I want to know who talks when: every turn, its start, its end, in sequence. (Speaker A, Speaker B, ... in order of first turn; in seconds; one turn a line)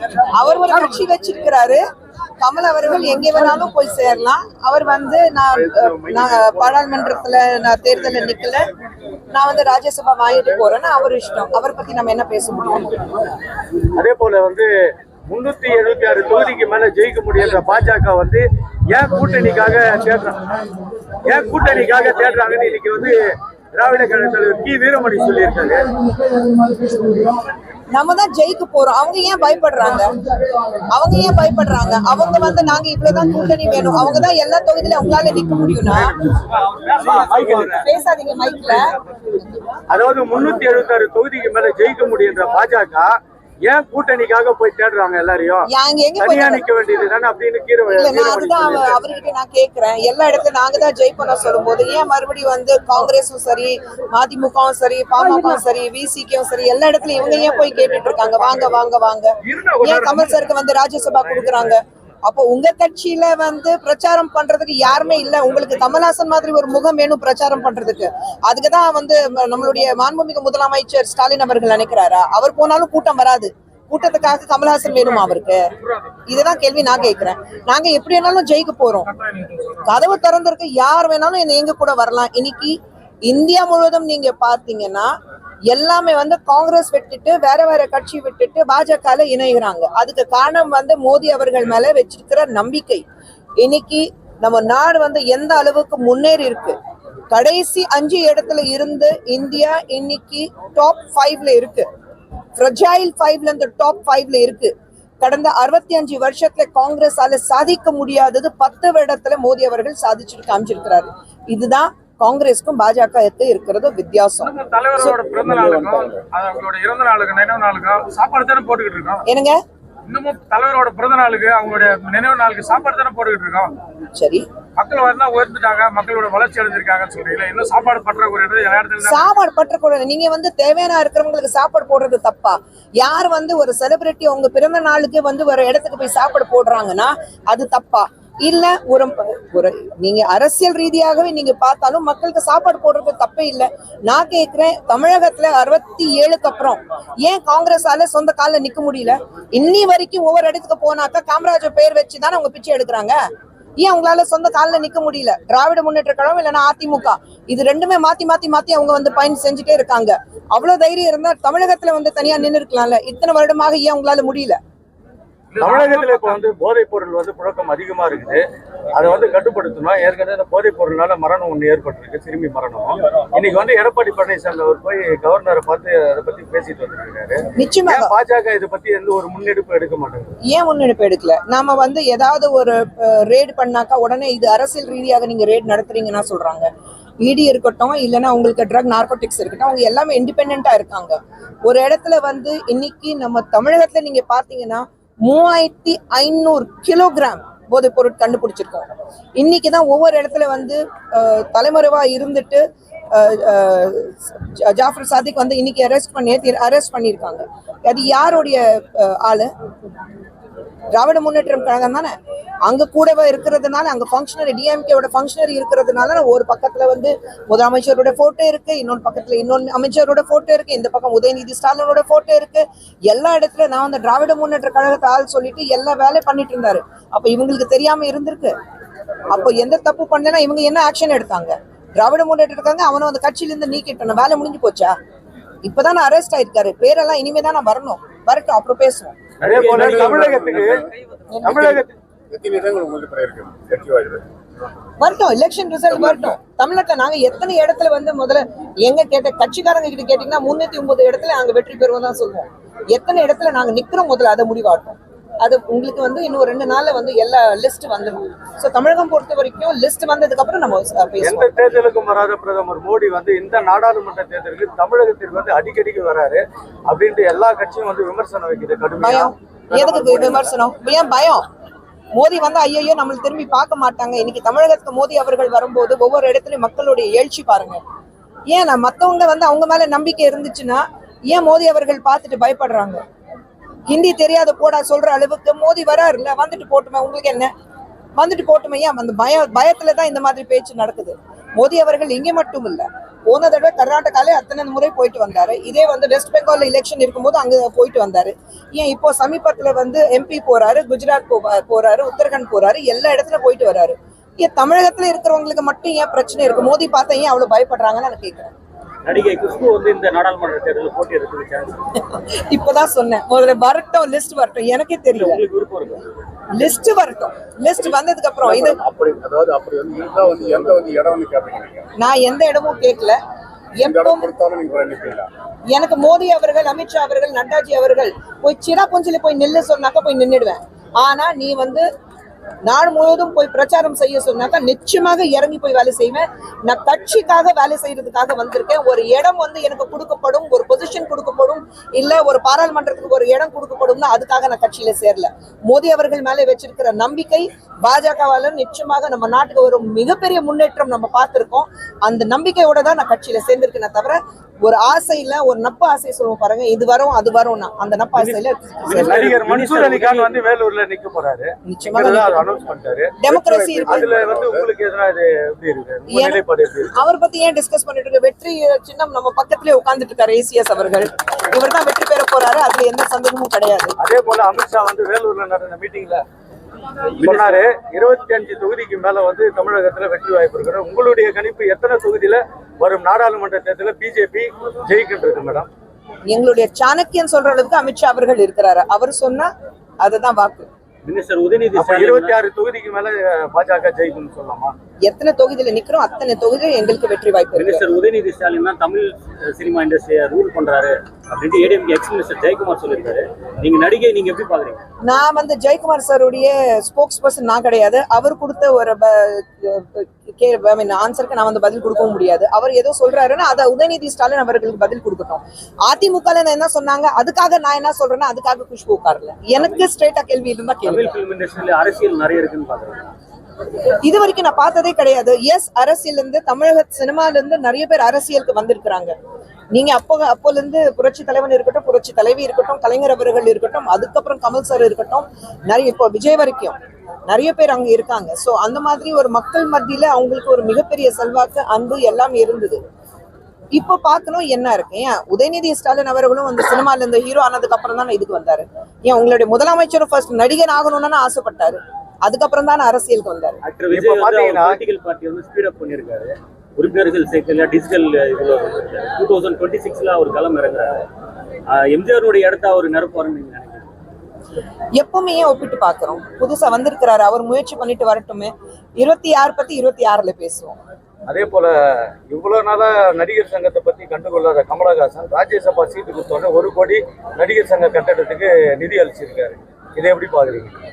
Speaker A: 0.2-1.8
Speaker A: 2.4-8.6
Speaker A: 9.3-13.2
Speaker B: 13.9-20.4
Speaker B: 21.2-23.2
Speaker B: 23.7-25.9
Speaker A: 27.9-30.2
Speaker A: 30.9-36.3
Speaker B: 36.4-37.9
Speaker C: 37.0-37.8
Speaker A: 37.5-39.0
Speaker B: 39.9-49.0
Speaker A: 45.7-46.6
Speaker A: 47.9-75.7
Speaker D: 59.5-60.5
Speaker A: 76.3-79.1
Speaker D: 79.1-79.9
Speaker A: 79.8-85.1
Speaker A: 85.7-93.0
Speaker A: 93.6-96.8
Speaker A: 97.3-101.9
Speaker A: 102.5-115.2
Speaker D: 114.4-119.2
Speaker E: 115.2-116.2
Speaker A: 119.2-119.6
Speaker D: 120.1-123.8
Speaker A: 124.1-124.5
Speaker D: 124.8-129.3
Speaker A: 129.0-153.2
Speaker A: 153.8-164.6
Speaker D: 165.5-166.4
Speaker B: 165.6-180.3
Speaker A: 177.5-178.1
Speaker A: 180.4-186.7
Speaker A: 187.2-198.9
Speaker A: 199.4-209.5
Speaker A: 210.9-212.1
Speaker A: 212.7-228.5
Speaker A: 229.3-234.9
Speaker A: 235.6-239.2
Speaker C: 239.4-240.4
Speaker B: 239.4-240.8
Speaker E: 239.6-240.8
Speaker A: 241.3-241.8
Speaker B: 241.4-241.9
Speaker E: 241.5-244.3
Speaker A: 245.0-261.6
Speaker E: 245.9-246.4
Speaker B: 261.2-270.5
Speaker A: 269.0-271.4
Speaker A: 272.1-277.8
Speaker A: 278.5-283.0
Speaker A: 283.9-287.5
Speaker A: 288.2-308.5
Speaker C: 309.1-311.8
Speaker A: 312.0-315.4
Speaker C: 315.1-316.0
Speaker A: 316.5-318.8
Speaker E: 318.4-321.9
Speaker A: 322.0-323.2
Speaker A: 323.8-324.3
Speaker E: 323.8-325.3
Speaker A: 325.7-331.8
Speaker A: 332.6-359.3
Speaker C: 358.1-360.4
Speaker B: 358.9-363.2
Speaker A: 361.7-362.5
Speaker A: 363.2-364.1
Speaker E: 363.2-364.7
Speaker B: 363.8-366.9
Speaker A: 366.1-373.9
Speaker B: 374.0-376.2
Speaker C: 377.2-377.6
Speaker B: 377.2-385.7
Speaker A: 386.3-390.7
Speaker C: 391.0-392.4
Speaker B: 391.7-394.7
Speaker A: 395.1-397.8
Speaker C: 397.5-404.8
Speaker A: 405.1-421.1
Speaker C: 420.8-423.0
Speaker A: 424.0-429.1
Speaker A: 429.7-436.8
Speaker A: 437.3-442.8
Speaker A: 443.7-453.6
Speaker C: 453.6-461.1
Speaker B: 453.9-454.8
Speaker C: 461.7-463.9
Speaker A: 464.9-470.8
Speaker B: 471.3-480.7